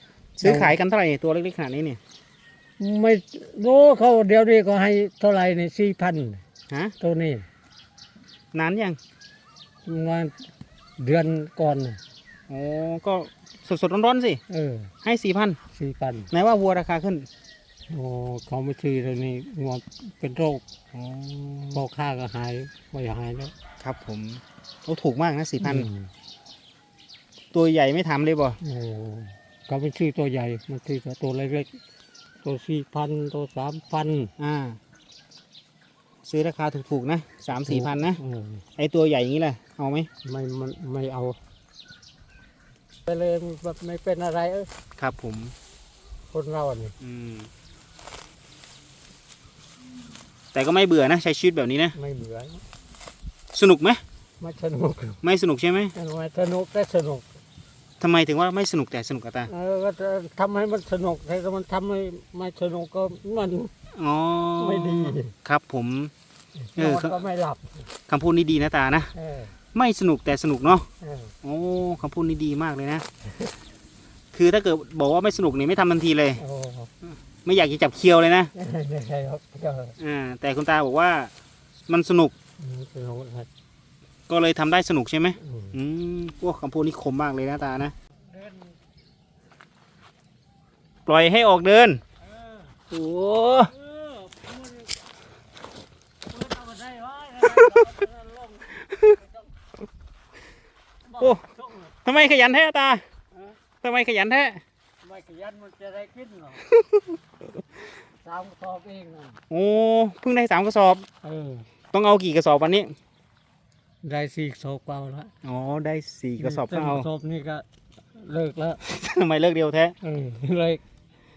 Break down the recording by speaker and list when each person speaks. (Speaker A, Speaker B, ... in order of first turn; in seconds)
Speaker A: 0.4-2.0, 6.7-7.0, 8.5-9.0, 12.5-14.4, 15.0-15.6, 16.3-17.3, 20.9-21.8, 23.8-25.9, 27.5-28.6, 34.4-34.8, 36.2-38.2, 38.8-40.1, 45.0-45.5, 47.0-47.5, 50.5-52.0, 53.5-54.0, 55.2-55.9, 58.0-59.5, 63.9-66.1, 66.8-67.2, 68.1-69.1, 69.7-70.9, 71.4-73.0, 74.3-76.4, 77.5-78.5, 80.0-81.3, 81.9-82.3, 84.3-88.0, 91.1-92.0, 92.9-93.7, 97.4-97.9, 98.8-99.1, 102.0-103.0, 103.8-104.6, 106.7-107.1, 109.5-111.1, 111.9-112.9, 115.4-117.1, 118.8-120.0
Speaker B: 0.4-0.8, 2.8-6.4, 7.0-7.5, 9.8-10.5, 11.0-12.0, 14.5-14.9, 15.7-16.3, 17.9-20.6, 21.7-23.5, 25.6-26.1, 28.6-31.7, 32.4-34.3, 37.5-38.6, 40.2-41.4, 43.0-44.7, 46.3-47.0, 52.0-52.6, 54.4-55.2, 56.0-57.2, 59.5-63.7, 64.6-65.3, 66.7-67.9, 69.2-69.5, 71.0-71.3, 76.4-76.9, 78.5-80.0, 82.6-83.5, 85.4-85.8, 88.3-88.8, 92.2-92.8, 93.7-94.9, 96.3-99.5, 101.1-101.9, 105.0-106.7, 108.2-109.4, 111.2-111.7, 114.0-115.3, 116.4-118.8, 120.0-120.8